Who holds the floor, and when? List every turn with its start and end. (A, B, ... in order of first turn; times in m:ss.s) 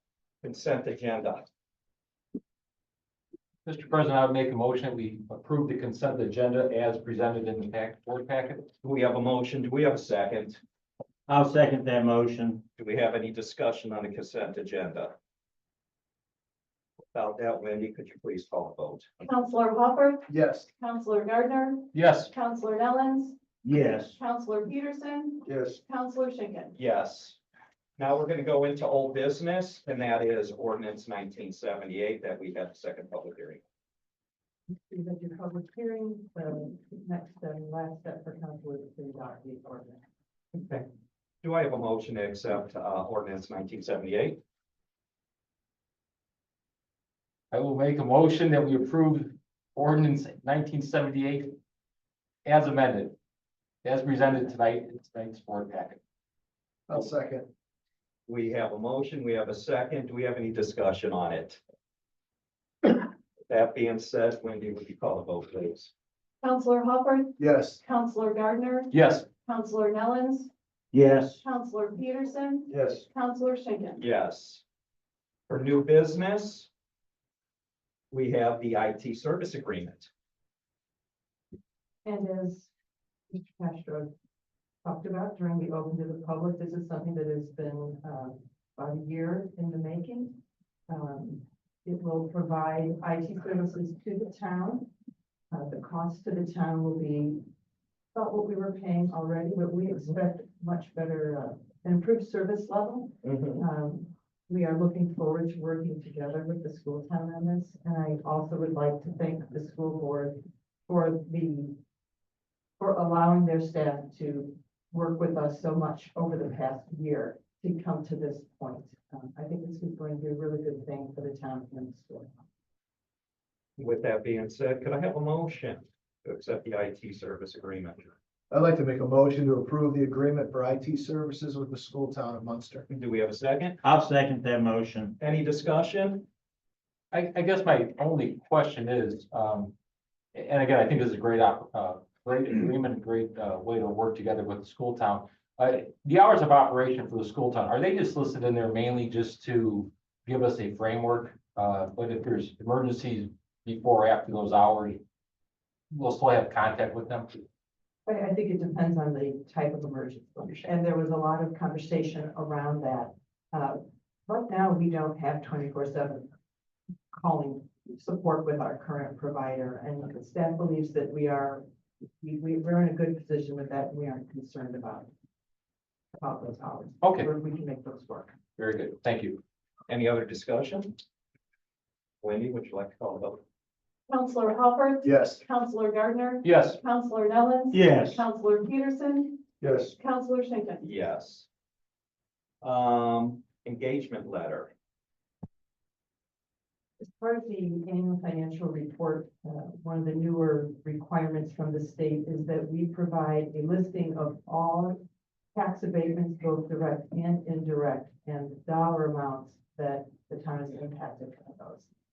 0:00.4-0:01.5 A
0:03.6-0:08.7 B
0:08.8-0:10.6 A
0:11.3-0:12.6 C
0:12.8-0:15.1 A
0:17.1-0:19.1 A
0:19.2-0:23.4 D
0:20.3-0:20.7 E
0:21.9-0:22.3 B
0:23.6-0:24.2 C
0:24.1-0:26.7 D
0:25.4-0:25.8 E
0:26.8-0:27.4 A
0:28.0-0:33.6 A
0:34.7-0:40.0 F
0:40.5-0:40.8 A
0:41.4-0:44.4 A
0:47.5-0:51.6 B
0:52.4-0:53.2 B
0:53.8-0:56.0 B
0:56.9-0:57.5 E
0:58.3-1:01.6 A
1:03.5-1:05.9 A
1:06.4-1:10.5 D
1:07.4-1:07.8 E
1:08.9-1:09.3 B
1:10.9-1:11.4 C
1:11.4-1:14.0 D
1:12.7-1:13.1 E
1:14.0-1:14.6 A
1:15.5-1:16.7 A
1:18.1-1:20.1 A
1:22.0-1:22.7 F
1:23.3-1:24.1 F
1:24.8-1:30.4 F
1:30.9-1:34.9 F
1:35.5-1:37.4 F
1:38.1-1:51.8 F
1:43.2-1:43.6 A
1:52.8-2:02.3 F
2:03.8-2:08.1 A
2:08.5-2:12.9 E
2:12.9-2:13.8 A
2:13.8-2:15.2 C
2:15.2-2:16.2 A
2:17.1-2:19.8 B
2:20.3-2:35.0 B
2:35.9-2:37.4 B
2:38.1-2:46.3 F
2:47.1-2:51.6 F
2:52.2-2:55.1 F
2:56.2-2:58.4 F
2:57.0-2:57.3 B
2:58.6-2:59.4 B
2:59.9-3:01.0 A
3:02.2-3:03.4 A
3:04.1-3:09.4 D
3:05.0-3:05.4 E
3:06.4-3:06.8 B
3:07.7-3:08.3 C
3:09.6-3:09.9 E
3:10.0-3:10.8 D
3:10.8-3:11.5 A
3:12.6-3:14.7 A
3:17.0-3:25.0 F
3:25.6-3:31.9 F